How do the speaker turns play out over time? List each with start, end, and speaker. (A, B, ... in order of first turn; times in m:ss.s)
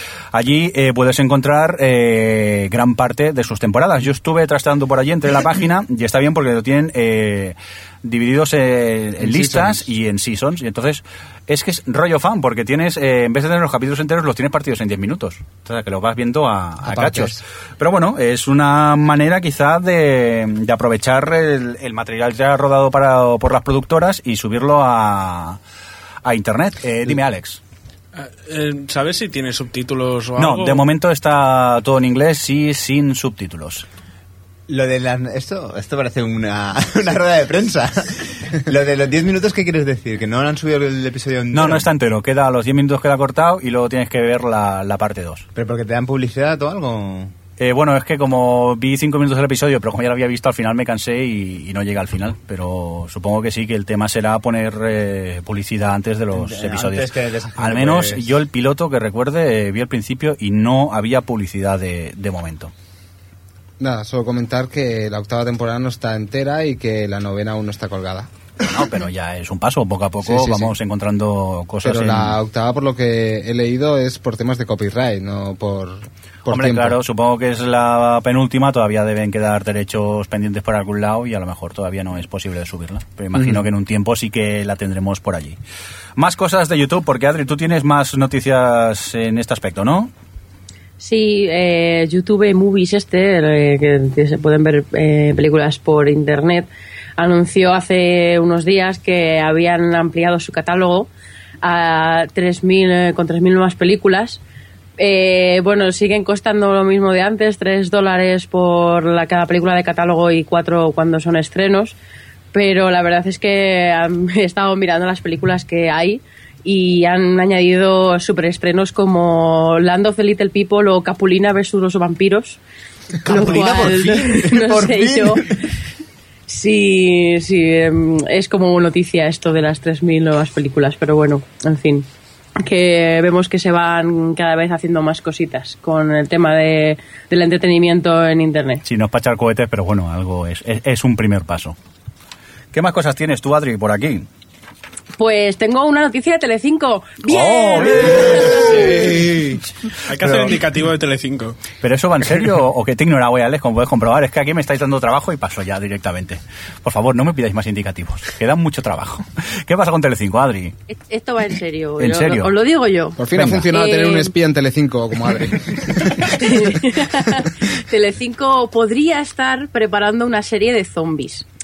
0:00.3-0:25.6 A
0:09.2-0:09.9 B
0:16.8-0:17.4 B
0:26.2-0:27.6 A
0:28.2-0:30.8 C
0:30.4-0:33.9 A
0:34.7-0:41.9 D
0:41.5-0:45.5 A
0:45.6-0:47.3 D
0:47.6-1:02.7 A
0:56.3-0:58.3 D
1:03.8-1:08.9 B
1:08.6-1:12.4 A
1:10.2-1:10.8 B
1:11.8-1:17.0 B
1:16.5-1:25.6 A
1:23.4-1:23.6 B
1:26.2-1:30.1 A
1:31.0-1:41.1 E
1:41.6-1:44.4 E
1:45.0-1:52.0 E
1:52.5-2:02.6 E
2:03.2-2:05.5 E
2:03.2-2:05.6 D
2:06.5-2:12.1 E
2:12.6-2:18.8 E
2:18.9-2:21.8 A
2:22.7-2:24.3 A
2:25.2-2:28.8 E
2:27.3-2:28.8 A
2:28.3-2:29.6 B
2:30.1-2:31.6 C
2:30.3-2:30.5 A
2:31.8-2:40.8 A
2:40.9-2:44.3 E
2:42.0-2:42.5 A
2:43.2-2:46.8 B
2:43.4-2:43.6 A
2:46.2-2:51.4 E